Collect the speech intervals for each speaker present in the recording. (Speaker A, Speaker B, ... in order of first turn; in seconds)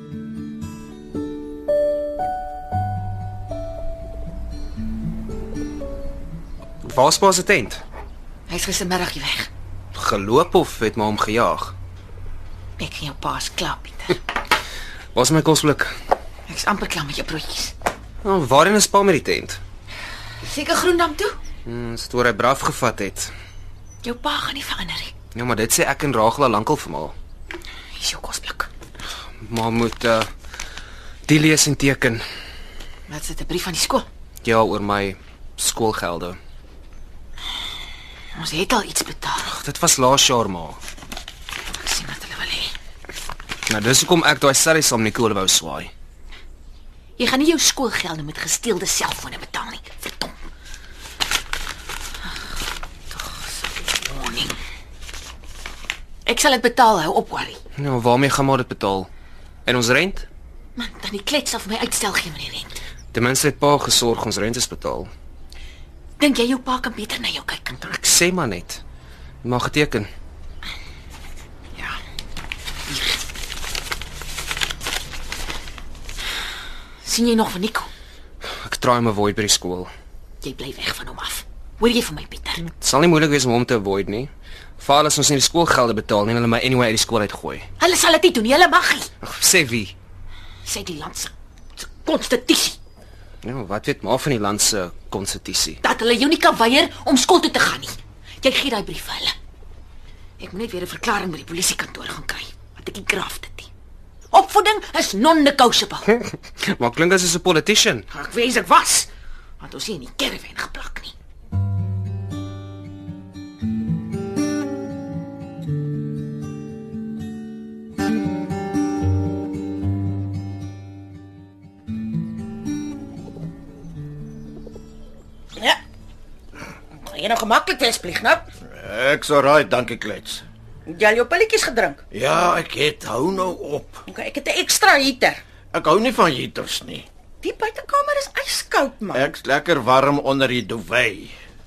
Speaker A: 6.8-7.8, 9.9-11.7, 15.1-15.9, 18.2-19.6, 21.6-23.3, 25.3-27.1, 29.4-30.3, 31.2-32.2, 34.4-36.4, 39.4-40.8, 43.7-45.9, 57.8-59.1, 59.6-60.3, 63.1-65.1, 67.8-68.8, 69.4-70.1, 78.6-79.9, 82.6-87.7, 89.2-89.9, 93.4-95.8, 106.2-108.0
Speaker B: 8.5-9.5, 12.8-14.2, 16.5-17.7, 20.4-21.4, 24.0-25.1, 28.0-28.7, 33.1-34.0, 38.4-39.5, 41.7-42.7, 47.2-50.3, 53.1-54.6, 56.2-57.6, 60.8-62.7, 66.2-67.8, 72.9-73.2, 77.0-77.9, 80.4-82.6, 87.8-89.1, 90.6-92.8, 95.8-99.3, 100.4-103.7, 104.3-106.1, 108.1-109.1, 109.6-111.1
Speaker C: 127.0-128.4, 130.8-132.0, 134.1-135.4, 137.4-139.3
Speaker D: 128.7-130.4, 132.1-134.0, 135.7-137.1, 139.1-141.3